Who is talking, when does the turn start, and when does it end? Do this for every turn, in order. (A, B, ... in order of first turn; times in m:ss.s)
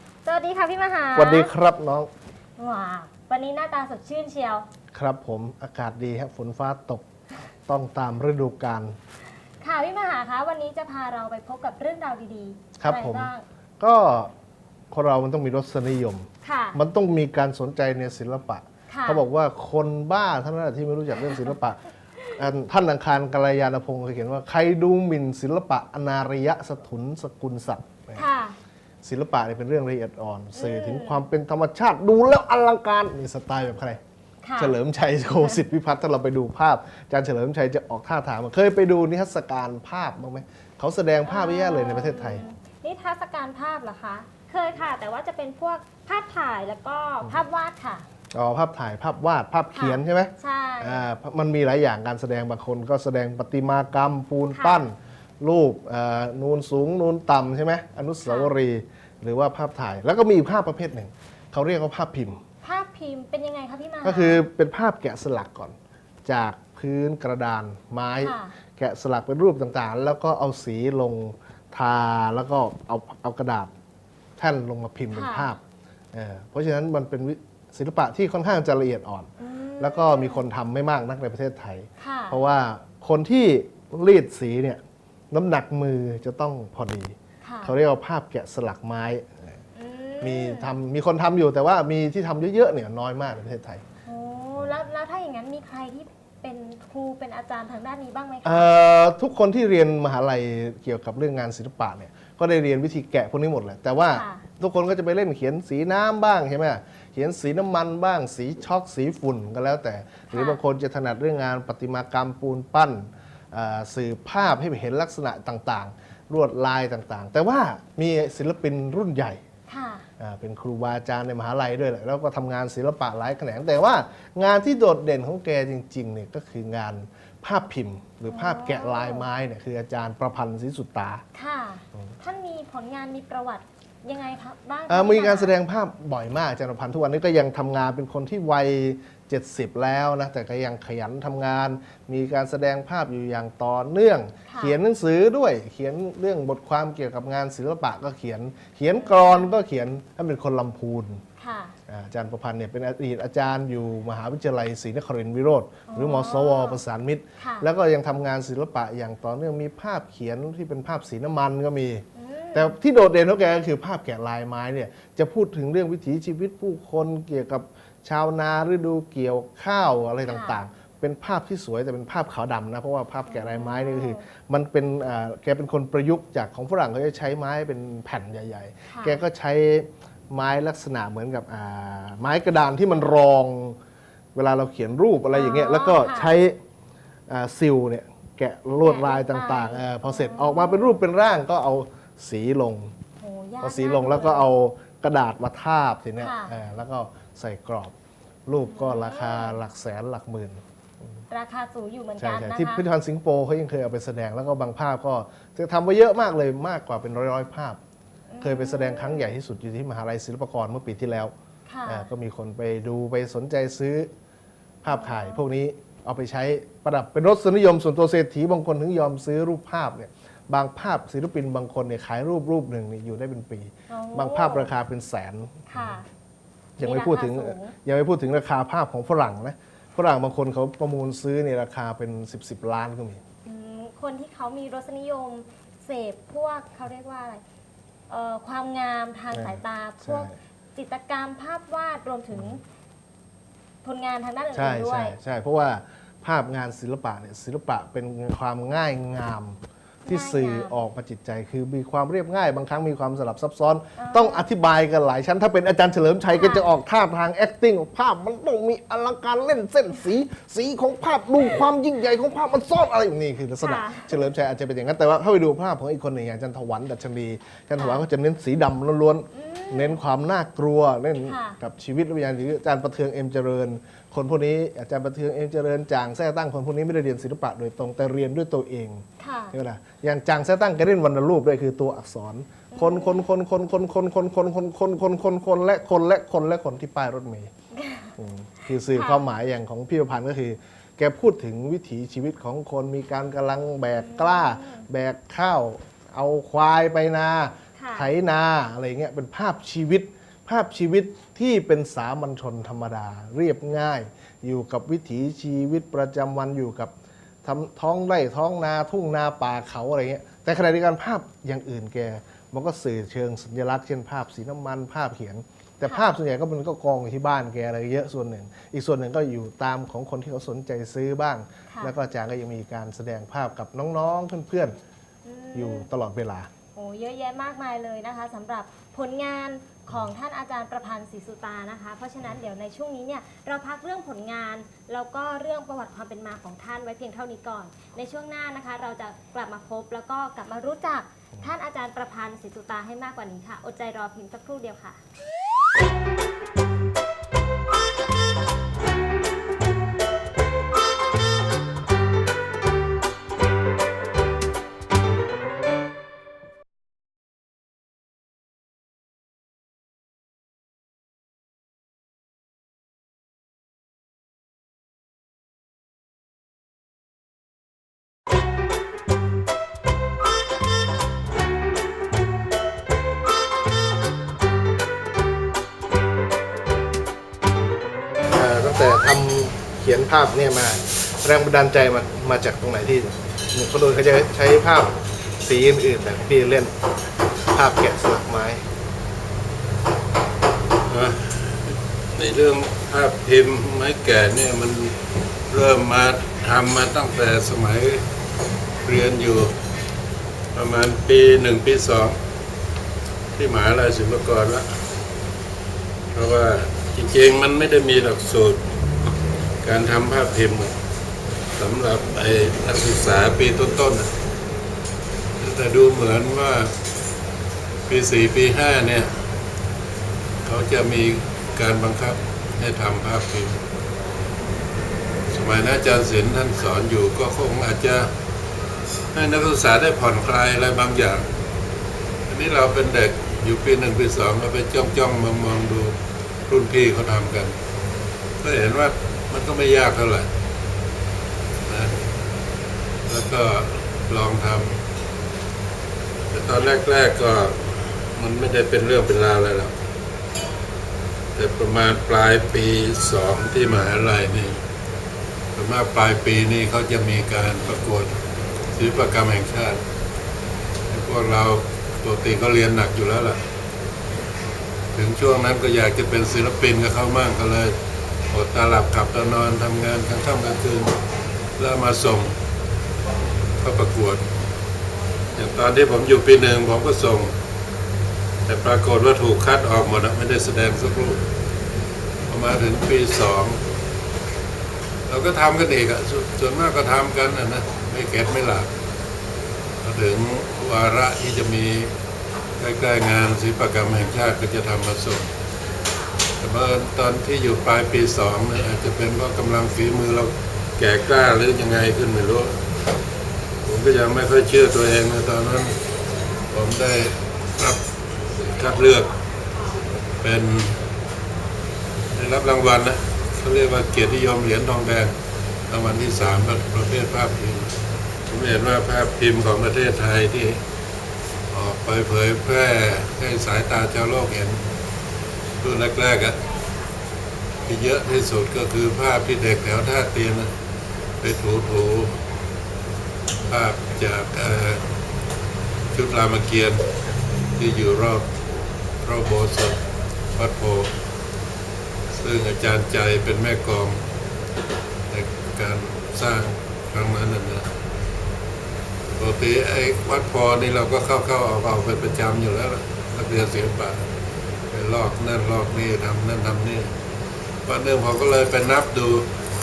0:00.2-0:01.5 A
0:01.2-0:02.1 B
0:02.6-0:04.7 A
0:04.9-0:07.0 B
0:07.7-0:09.0 B
0:09.6-0:13.4 A
0:12.8-0:14.3 B
0:14.9-0:28.2 B
0:16.4-0:16.8 A
0:18.9-0:19.2 A
0:28.2-0:28.6 A
0:29.0-0:34.0 B
0:30.6-0:31.2 A
0:34.4-0:34.8 A
0:34.6-0:42.4 B
0:41.2-0:48.0 A
0:48.3-1:02.4 B
0:49.7-0:51.0 A
0:54.5-0:54.9 A
0:58.2-0:58.5 A
1:02.6-1:04.4 A
1:04.0-1:13.7 B
1:08.2-1:08.5 A
1:14.4-1:15.6 B
1:15.1-1:15.5 A
1:16.1-1:29.5 B
1:19.4-1:20.4 A
1:22.0-1:22.4 A
1:27.4-1:27.7 A
1:29.7-1:30.7 A
1:30.2-1:33.8 B
1:34.0-1:38.6 A
1:38.4-1:59.4 B
1:44.1-1:44.4 A
1:50.3-1:50.6 A
1:59.7-2:00.1 A
2:00.2-2:11.2 B
2:08.3-2:09.2 A
2:11.3-2:15.5 A
2:14.9-2:31.2 B
2:24.5-2:24.8 A
2:28.9-2:29.5 A
2:31.4-2:31.8 A
2:31.9-3:03.8 B
2:35.9-2:36.8 A
2:37.4-2:37.7 A
2:42.2-2:42.7 A
2:50.3-2:50.6 A
2:53.3-2:54.2 A
2:58.9-2:59.2 A
3:04.3-3:06.6 B
3:05.3-3:06.3 A
3:07.3-3:12.9 B
3:08.8-3:11.0 A
3:13.2-3:14.5 A
3:13.6-3:17.9 B
3:16.2-3:16.5 A
3:18.4-3:20.6 B
3:18.7-3:19.6 A
3:21.3-3:22.8 A
3:22.2-3:27.8 B
3:28.3-3:29.3 A
3:28.4-3:31.3 B
3:31.7-3:32.1 A
3:31.9-3:34.1 B
3:34.8-3:46.0 B
3:34.9-3:35.4 A
3:43.9-3:44.7 A
3:45.7-3:46.1 A
3:46.8-3:53.2 B
3:46.8-3:47.7 A
3:53.4-3:57.4 A
3:58.1-4:02.6 A
3:59.3-4:00.4 B
4:02.3-4:02.6 B
4:03.8-4:05.2 A
4:04.5-4:47.5 B
4:10.0-4:10.8 A
4:14.0-4:14.4 A
4:16.3-4:16.7 A
4:23.6-4:24.1 A
4:27.8-4:28.0 A
4:29.3-4:30.0 A
4:31.2-4:31.6 A
4:39.2-4:39.5 A
4:42.7-4:43.2 A
4:47.7-4:48.1 A
4:48.2-5:06.9 B
4:48.9-4:49.3 A
4:53.9-4:54.8 A
4:57.8-4:58.1 A
5:07.4-5:24.8 B
5:25.2-5:25.9 A
5:25.5-5:26.5 B
5:26.7-5:45.0 A
6:18.3-6:26.7 B
6:27.5-6:28.6 B
6:30.8-6:34.9 C
6:35.5-6:38.0 C
6:38.8-6:39.5 C
6:40.5-6:42.2 C
6:43.4-6:44.7 C
6:46.1-6:48.6 C
6:49.6-6:50.7 C
6:51.6-6:54.1 C
6:55.4-6:56.7 C
6:57.9-6:59.1 C
7:00.4-7:03.6 C
7:05.3-7:08.1 C
7:09.1-7:11.3 C
7:12.3-7:16.0 C
7:16.5-7:17.6 C
7:18.4-7:20.3 C
7:21.6-7:21.9 C
7:23.1-7:24.8 C
7:26.3-7:29.7 C
7:31.4-7:34.6 C
7:35.5-7:38.2 C
7:38.7-7:39.8 C
7:40.9-7:43.4 C
7:44.9-7:47.7 C
7:48.3-7:51.0 C
7:51.6-7:52.3 C
7:53.6-7:54.2 C
7:55.4-7:57.3 C
7:58.4-8:01.2 C
8:02.3-8:03.6 C
8:05.1-8:08.7 C
8:09.8-8:11.9 C
8:12.6-8:15.3 C
8:16.4-8:22.6 C
8:23.6-8:25.8 C
8:26.5-8:27.8 C
8:28.4-8:29.1 C
8:30.2-8:30.8 C
8:32.1-8:35.1 C
8:35.7-8:37.7 C
8:38.3-8:40.6 C
8:41.5-8:44.6 C
8:45.6-8:46.4 C
8:47.6-8:50.5 C
8:51.2-8:52.2 C
8:53.5-8:54.8 C
8:55.9-8:56.8 C
8:57.6-8:58.2 C
8:59.0-8:59.8 C
9:00.3-9:00.9 C
9:02.1-9:04.0 C
9:05.1-9:07.7 C
9:09.2-9:14.0 C
9:14.7-9:16.9 C
9:17.6-9:19.3 C